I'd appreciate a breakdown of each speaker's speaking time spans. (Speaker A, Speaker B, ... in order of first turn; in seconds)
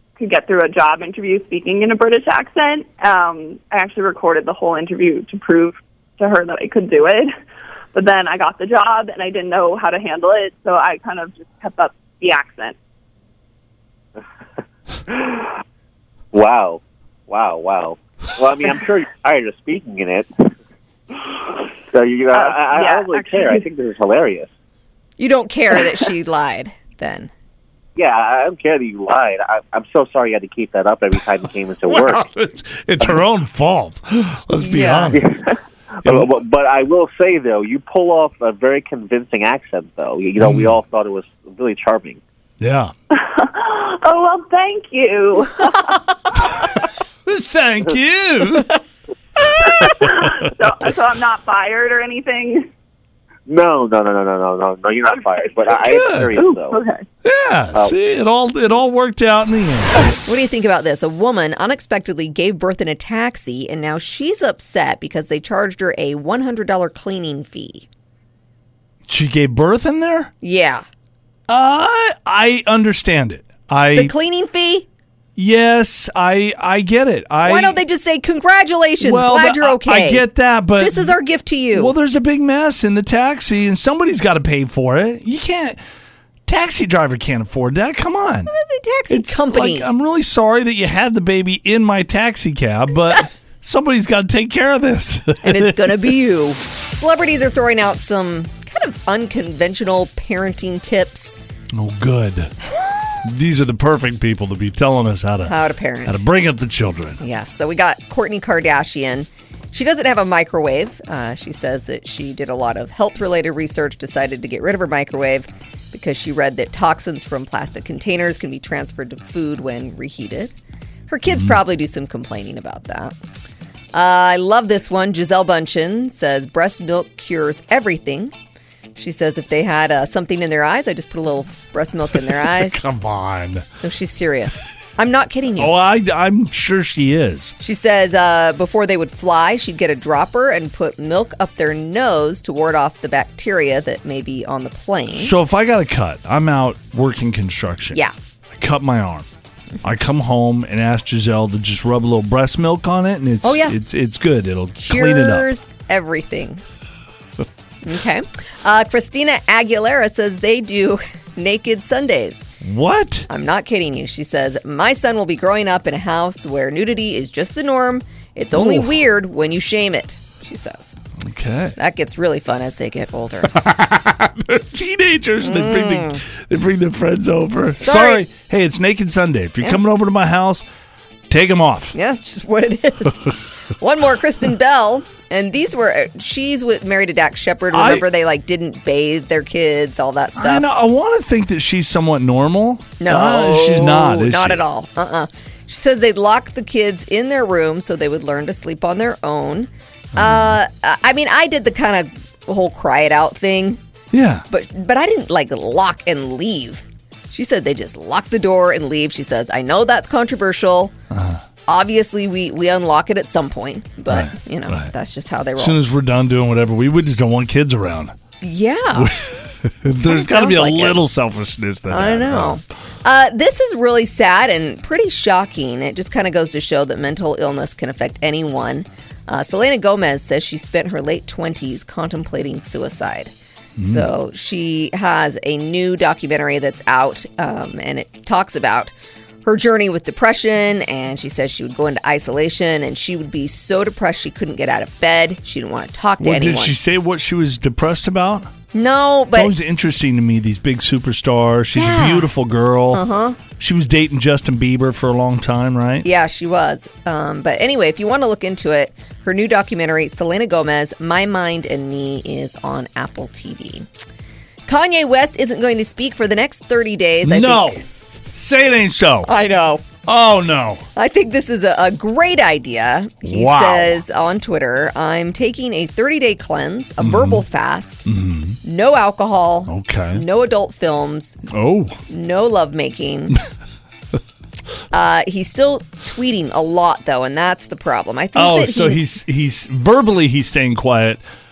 Speaker A: 0.2-7.3, 7.9-12.8, 22.3-23.6, 43.1-46.0, 49.6-52.7, 56.4-57.0
Speaker B: 15.1-15.5, 16.3-20.3, 21.9-24.5, 28.0-32.3, 35.1-42.2, 53.5-56.8
Speaker C: 25.2-27.3, 34.6-35.2, 60.2-67.9, 70.4-70.8, 73.9-74.9, 77.4-82.0, 88.5-89.9, 95.4-101.4, 105.5-106.3, 107.2-120.5, 121.1-123.2, 123.9-128.3, 129.0-132.8, 133.8-135.8, 137.6-145.3, 153.4-153.8, 154.8-156.6, 157.8-162.4, 163.3-170.9, 171.8-173.6, 175.4-176.2, 177.8-178.3, 181.9-190.7, 193.0-203.8, 204.5-210.9, 211.7-215.8, 218.4-219.1, 220.0-221.0, 221.9-233.3, 233.8-238.9, 239.4-246.8, 248.7-249.6, 251.7-252.3, 252.9-253.4, 256.0-263.9, 264.7-267.8, 269.3-269.9, 270.9-278.1, 278.6-281.4, 282.1-283.4, 284.9-289.0
Speaker D: 31.9-35.4, 36.0-36.3, 40.4-40.7, 42.6-42.9, 46.5-48.8, 49.8-50.5, 55.8-56.4, 57.2-60.2, 69.1-70.3, 71.5-74.1, 75.4-77.8, 79.0-81.2, 81.7-85.8, 86.5-88.5, 89.1-96.2, 101.7-102.5, 103.2-107.2, 132.2-133.7, 135.6-137.6, 145.1-148.0, 148.5-149.3, 149.8-155.5, 162.6-163.3, 168.5-169.0, 171.2-171.8, 173.5-180.7, 181.3-182.0, 187.7-188.1, 190.4-194.6, 200.2-200.6, 204.1-204.4, 211.1-211.4, 214.1-214.9, 215.6-218.2, 218.9-222.6, 233.8-234.1, 246.2-248.5, 249.3-253.0, 253.6-256.1, 267.2-269.3, 270.0-270.9, 273.2-274.0, 277.0-277.4, 278.1-278.6, 279.7-280.2, 281.5-282.0, 288.4-291.2